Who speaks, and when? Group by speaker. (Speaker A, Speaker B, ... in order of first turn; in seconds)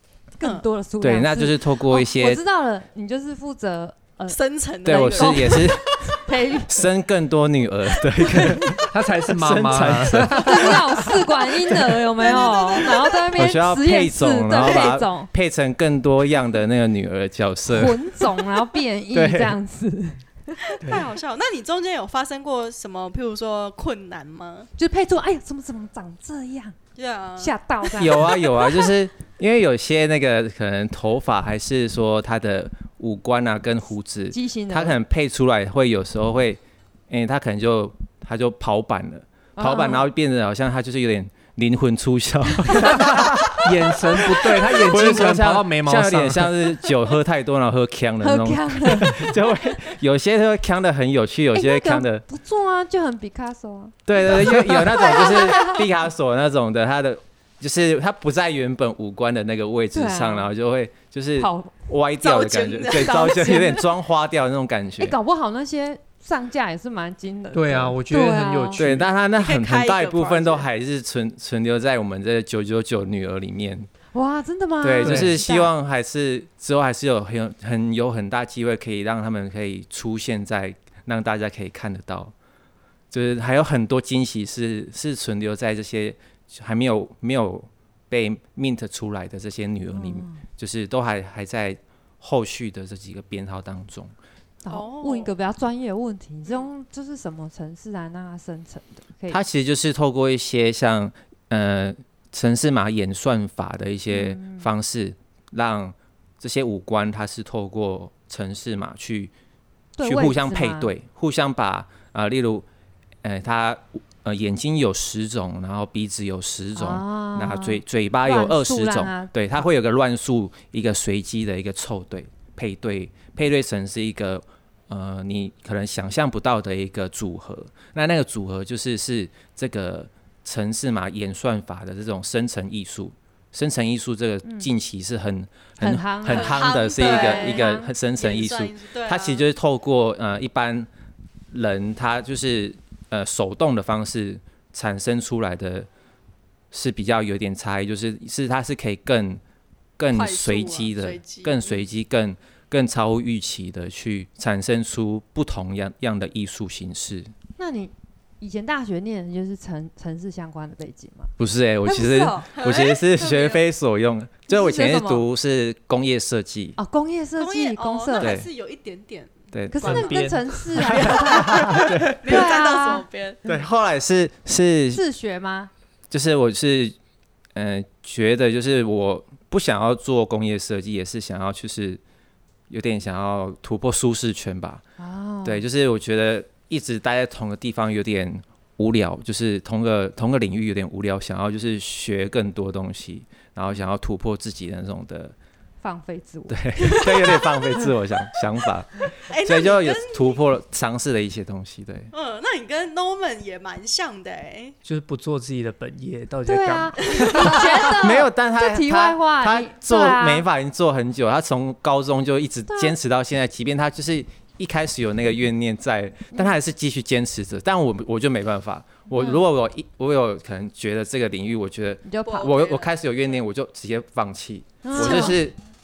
Speaker A: 0.4-6.8, 8.2-8.8, 10.3-15.3, 17.7-20.7, 24.8-26.8, 27.4-28.9, 34.3-35.0, 39.6-40.1, 48.2-49.9, 51.5-55.8, 59.9-60.5, 61.4-61.7, 62.9-63.9, 65.0-68.8, 74.1-75.7, 89.9-90.4, 94.6-99.4, 104.1-104.7, 110.0-110.9, 116.8-119.3, 134.4-134.7, 135.8-137.9, 157.6-161.3, 161.8-162.5, 164.5-165.2, 166.8-168.3, 169.7-173.1, 174.9-175.7, 185.0-185.7, 195.8-197.3, 206.5-210.5, 212.7-213.0, 219.2-219.4, 222.0-222.5, 224.8-225.4
Speaker B: 1.0-2.4, 4.8-6.0, 6.7-11.8, 13.3-18.3, 19.1-19.6, 28.0-52.2, 54.1-65.2, 68.8-73.9, 74.8-82.3, 83.1-94.1, 99.3-109.3, 110.0-112.7, 113.2-140.9, 141.5-145.9, 146.7-149.4, 150.0-157.3, 161.4-166.8, 168.2-168.5, 169.5-170.2, 171.0-172.5, 173.4-175.0, 176.1-176.9, 177.6-182.0, 182.7-184.8, 185.4-195.3, 196.5-202.1, 207.8-225.6
Speaker C: 4.3-6.2, 8.2-8.4, 12.2-13.3, 20.7-24.7, 27.0-28.6, 55.3-55.8, 62.2-63.6, 69.4-70.7, 94.7-95.3, 136.3-139.4, 150.1-151.8, 162.6-163.6, 167.4-170.1, 170.8-173.4, 199.3-200.4, 202.1-204.8, 222.2-223.4, 224.9-225.4
Speaker D: 8.9-10.8, 42.9-46.7, 67.5-69.1, 75.0-75.3, 169.8-172.1, 204.8-207.8